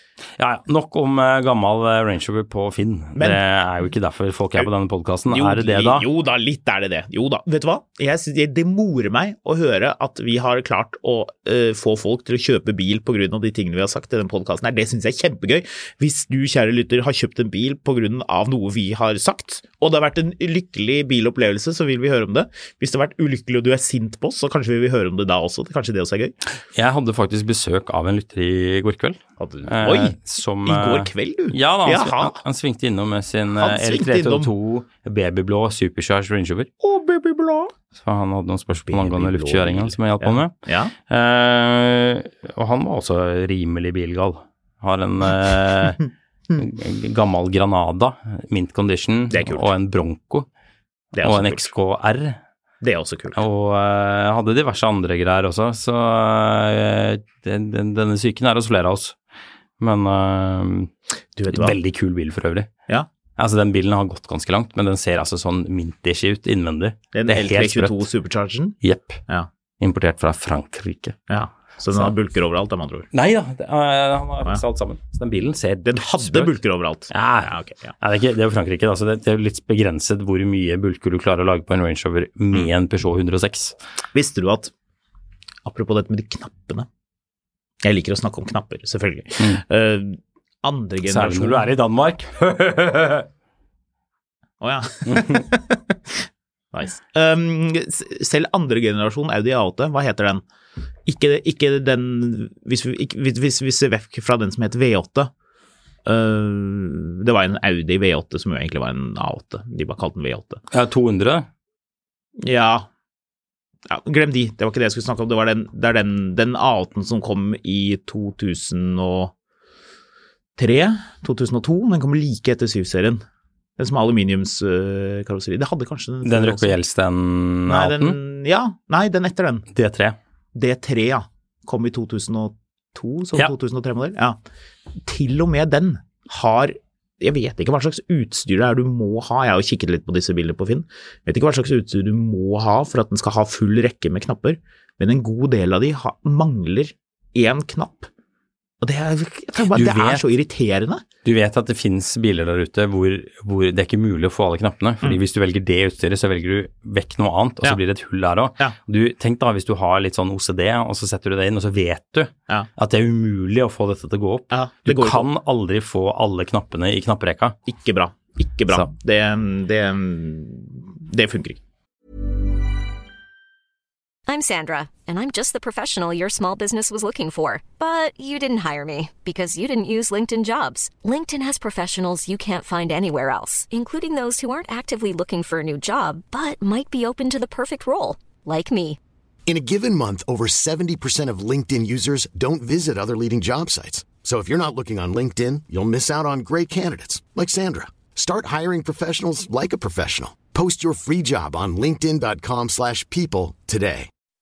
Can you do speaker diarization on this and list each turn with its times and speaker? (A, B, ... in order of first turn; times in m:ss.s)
0:00.4-0:06.0 A
0:03.2-0:03.4 B
0:05.3-0:26.4 B
0:26.7-0:36.7 A
0:29.4-0:32.4 B
0:33.6-0:34.5 B
0:36.8-0:37.8 B
0:37.9-0:46.0 A
0:38.9-0:40.9 B
0:46.5-0:50.5 A
0:49.3-0:49.7 B
0:51.1-0:51.7 B
0:51.2-0:52.4 A
0:52.8-0:53.4 B
0:53.4-0:59.2 A
0:59.8-1:00.9 A
1:01.4-1:01.8 B
1:01.5-1:02.7 A
1:03.4-1:08.0 A
1:07.1-1:08.8 B
1:08.8-1:09.2 A
1:09.8-1:11.2 A
1:11.3-1:13.1 B
1:13.1-1:16.6 A
1:15.8-1:17.9 B
1:17.1-1:23.8 A
1:24.1-1:24.7 B
1:25.6-1:26.9 B
1:27.8-1:31.6 B
1:31.1-1:33.3 A
1:34.6-1:40.4 B
1:35.1-1:35.4 A
1:41.0-1:45.3 B
1:46.0-1:50.6 B
1:50.7-1:51.5 A
1:52.4-1:52.9 B
1:53.9-1:59.3 B
2:00.6-2:03.2 B
2:03.8-2:06.7 B
2:06.2-2:08.2 A
2:07.7-2:09.7 B
2:09.7-2:10.2 A
2:10.5-2:14.4 B
2:15.0-2:28.1 B
2:28.8-2:31.0 B
2:29.7-2:30.2 A
2:31.2-2:47.6 A
2:44.5-2:45.3 B
2:47.7-2:51.6 B
2:54.3-3:09.0 C
3:09.5-3:24.1 D